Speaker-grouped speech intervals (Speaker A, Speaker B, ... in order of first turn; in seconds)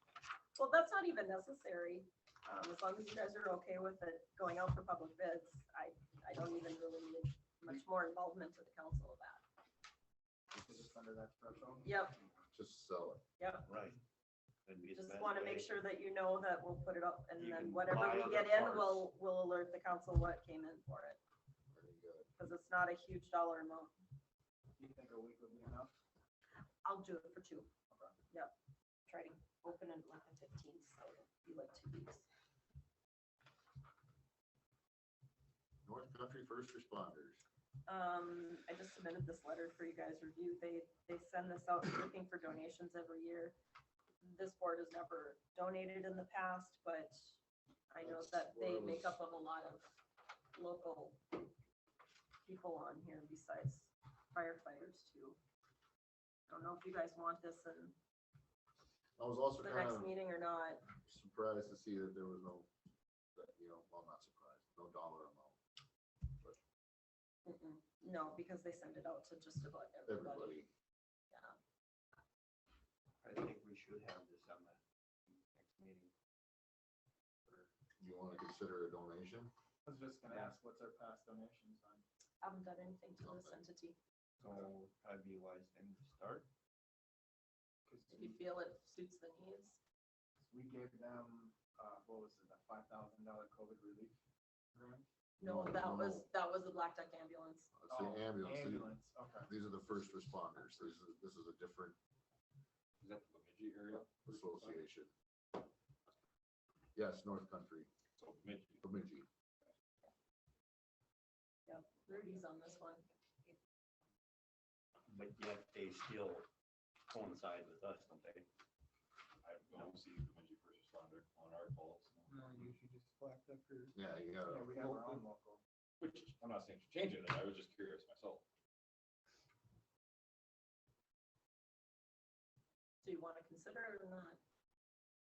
Speaker A: 0.5-9.4, 11.8-12.2, 13.4-13.7, 14.9-21.2, 22.4-23.9, 26.8-27.7, 29.1-32.2, 37.9-43.5, 44.2-47.4, 47.9-49.9, 50.5-51.2, 52.4-55.4, 56.5-57.9, 59.6-60.8, 67.4-70.6, 82.4-84.0, 88.1-89.8, 95.4-97.7, 111.7-113.0, 133.0-134.4
Speaker B: 10.5-11.9, 24.8-25.9, 27.9-28.1, 79.8-82.0, 87.9-88.4, 90.4-94.2, 94.7-95.0, 97.9-99.5, 124.5-125.6
Speaker C: 12.5-13.2, 21.7-22.3, 35.8-37.4, 48.0-49.1, 59.2-60.1, 60.9-62.7, 63.4-65.6, 70.0-70.7, 78.0-79.5, 83.2-83.5, 95.4-96.3, 97.8-98.9, 99.5-102.0, 104.1-105.1, 106.9-107.9, 108.8-109.3, 123.9-124.8
Speaker D: 13.7-14.0, 14.7-15.7, 17.4-19.1, 73.2-74.8, 75.5-76.1, 84.4-86.5, 115.1-116.5, 117.1-118.5
Speaker E: 103.0-104.8, 108.2-108.8, 119.4-122.7, 126.0-128.4